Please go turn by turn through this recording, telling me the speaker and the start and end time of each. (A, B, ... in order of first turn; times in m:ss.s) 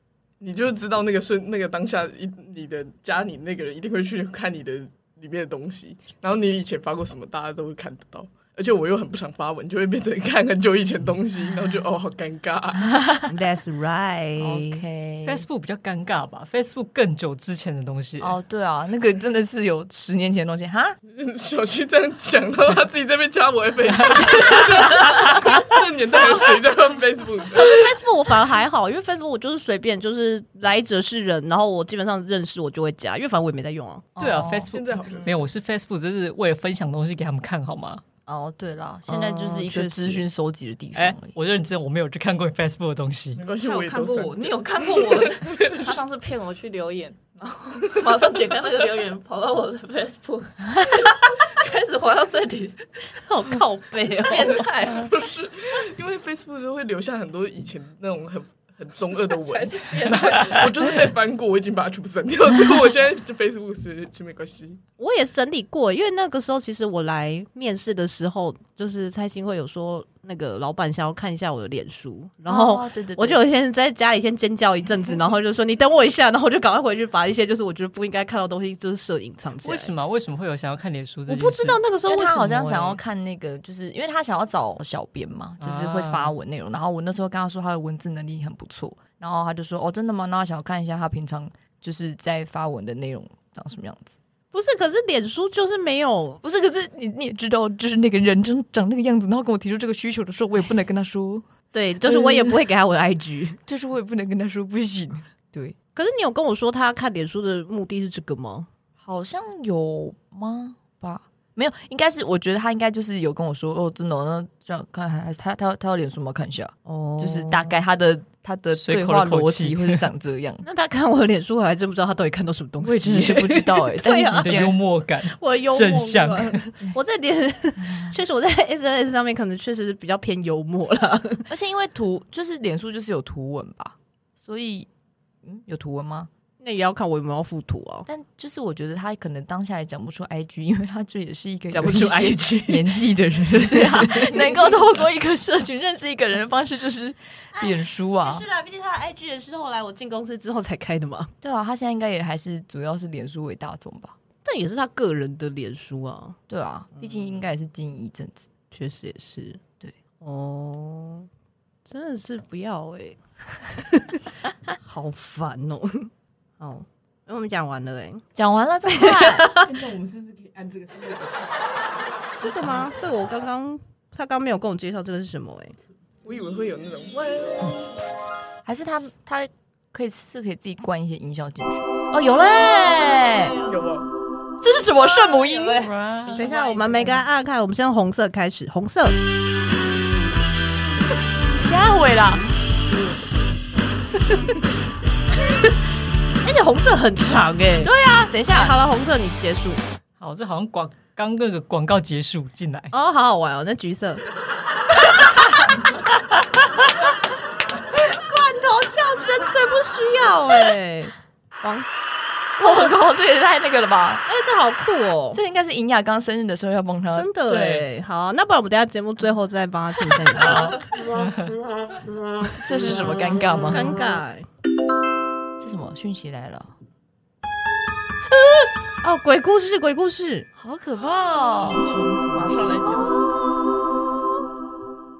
0:00.4-0:13.0 A
0:13.3-0:14.8 B
0:14.4-0:15.4 C
0:15.2-0:18.4 D
0:18.2-0:21.0 C
0:21.1-0:27.9 A
0:27.6-0:34.1 B
0:34.2-0:34.7 C
0:34.2-0:38.0 D
0:34.7-0:35.3 A
0:38.3-0:41.3 C
0:39.1-0:40.2 B
0:40.9-0:43.5 D
0:43.4-0:45.9 A
0:43.5-0:52.8 E
0:53.2-0:54.6 B
0:54.1-0:55.2 E
0:54.9-1:04.8 A
0:59.3-1:00.8 E
1:05.0-1:19.9 B
1:12.5-1:13.4 C
1:19.6-1:21.8 D
1:21.3-1:23.0 B
1:22.1-1:34.2 C
1:25.6-1:26.3 D
1:34.5-1:36.4 B
1:36.4-1:41.4 C
1:41.7-1:43.6 B
1:42.0-1:42.5 C
1:43.7-1:45.8 C
1:46.0-1:48.7 B
1:49.0-2:00.6 C
1:56.8-1:57.7 B
1:58.7-2:00.0 D
2:00.6-2:04.7 B
2:02.8-2:04.8 C
2:04.3-2:06.6 D
2:05.3-2:11.4 B
2:11.5-2:14.9 C
2:15.4-2:16.3 C
2:16.6-2:18.1 B
2:18.1-2:28.4 C
2:21.7-2:23.0 B
2:23.8-2:24.6 B
2:27.5-2:31.3 B
2:31.4-2:34.2 C
2:34.4-2:36.4 B
2:36.5-2:38.5 C
2:37.0-2:37.4 B
2:38.7-2:39.6 B
2:40.2-2:41.3 B
2:41.9-2:48.2 B
2:48.3-2:49.5 C
2:48.9-2:49.7 B
2:49.7-2:51.6 E
2:52.4-2:55.8 B
2:52.5-2:52.9 C
2:56.2-2:57.8 A
2:58.6-3:03.6 C
3:03.6-3:04.1 A
3:04.6-3:05.9 C
3:05.8-3:06.5 D
3:06.2-3:07.2 E
3:06.3-3:09.2 B
3:11.5-3:12.5 C
3:16.4-3:17.9 B
3:17.8-3:18.8 C
3:18.5-3:19.8 B
3:20.2-3:22.9 D
3:22.9-3:24.2 B
3:24.9-3:25.8 B
3:27.9-3:31.9 B
3:32.6-3:34.2 C
3:32.6-3:33.0 B
3:34.3-3:35.4 B
3:35.3-3:37.8 C
3:37.1-3:40.8 B
3:40.4-3:41.5 D
3:42.4-3:44.5 B
3:42.6-3:43.9 C
3:45.6-3:46.7 C
3:49.0-3:50.5 B
3:50.6-3:51.9 C
3:51.6-3:53.0 A
3:52.2-3:53.2 E